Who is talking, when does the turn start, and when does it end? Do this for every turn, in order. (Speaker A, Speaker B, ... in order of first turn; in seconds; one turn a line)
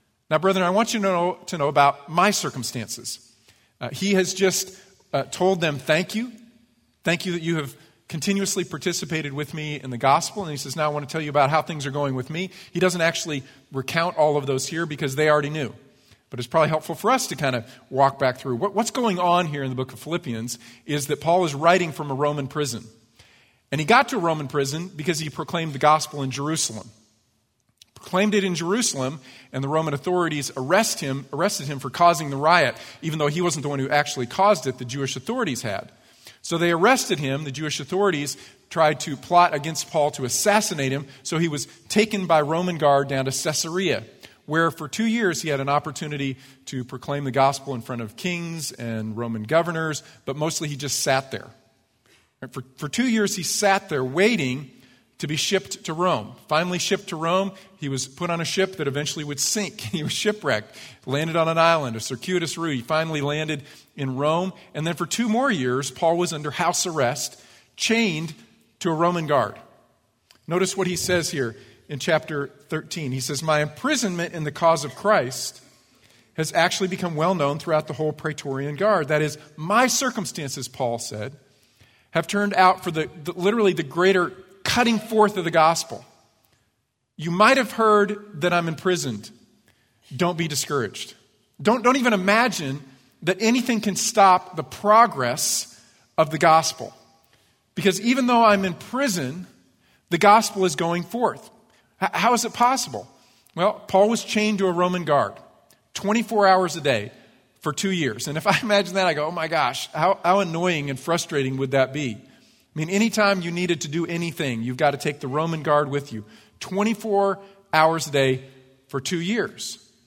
Speaker A: 0.3-3.2
Speaker A: 3.8-6.3
Speaker A: 7.0-15.8
Speaker A: 16.3-22.9
Speaker A: 23.7-26.9
Speaker A: 28.0-35.9
Speaker A: 36.4-51.5
Speaker A: 52.4-69.6
Speaker A: 70.5-75.6
Speaker A: 76.4-81.4
Speaker A: 82.1-86.0
Speaker A: 87.2-89.3
Speaker A: 90.1-97.0
Speaker A: 97.8-99.5
Speaker A: 100.1-105.4
Speaker A: 105.9-107.1
Speaker A: 107.6-112.2
Speaker A: 112.7-119.8